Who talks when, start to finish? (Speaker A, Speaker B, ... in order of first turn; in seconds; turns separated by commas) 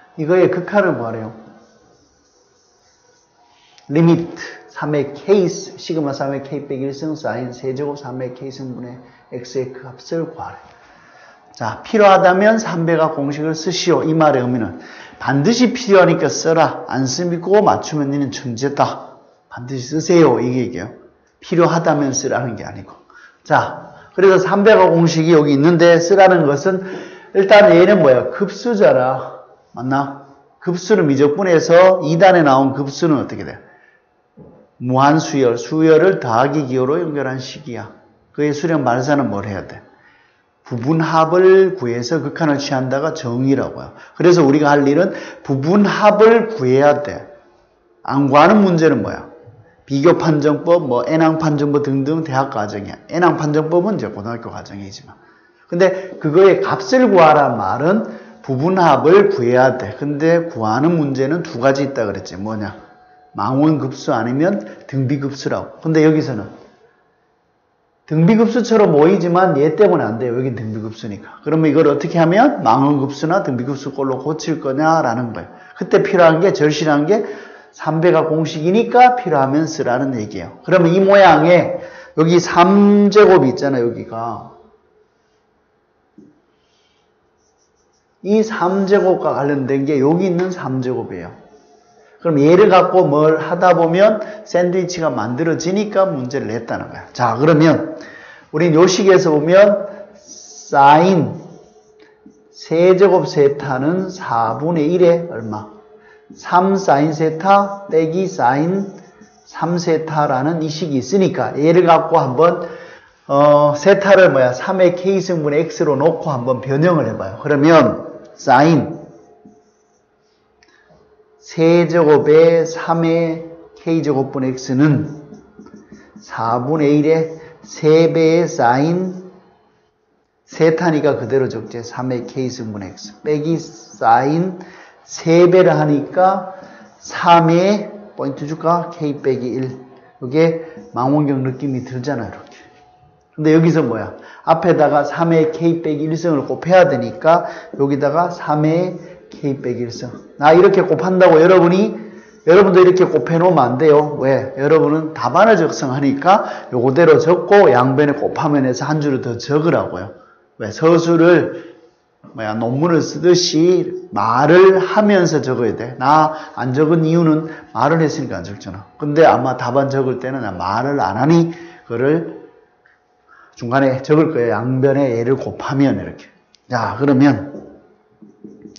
Speaker A: 0.2-1.4, Speaker A: 3.9-10.6, Speaker A: 11.6-33.6, Speaker A: 34.8-39.8, Speaker A: 40.6-47.3, Speaker A: 48.0-49.3, Speaker A: 49.9-55.2, Speaker A: 55.7-62.8, Speaker A: 63.4-66.5, Speaker A: 68.1-84.5, Speaker A: 88.2-91.3, Speaker A: 92.2-98.0, Speaker A: 98.5-101.4, Speaker A: 102.5-105.7, Speaker A: 106.3-108.9, Speaker A: 109.5-112.7, Speaker A: 113.3-119.0, Speaker A: 121.4-125.3, Speaker A: 126.2-129.2, Speaker A: 130.5-142.6, Speaker A: 143.3-161.7, Speaker A: 162.3-172.4, Speaker A: 173.6-177.6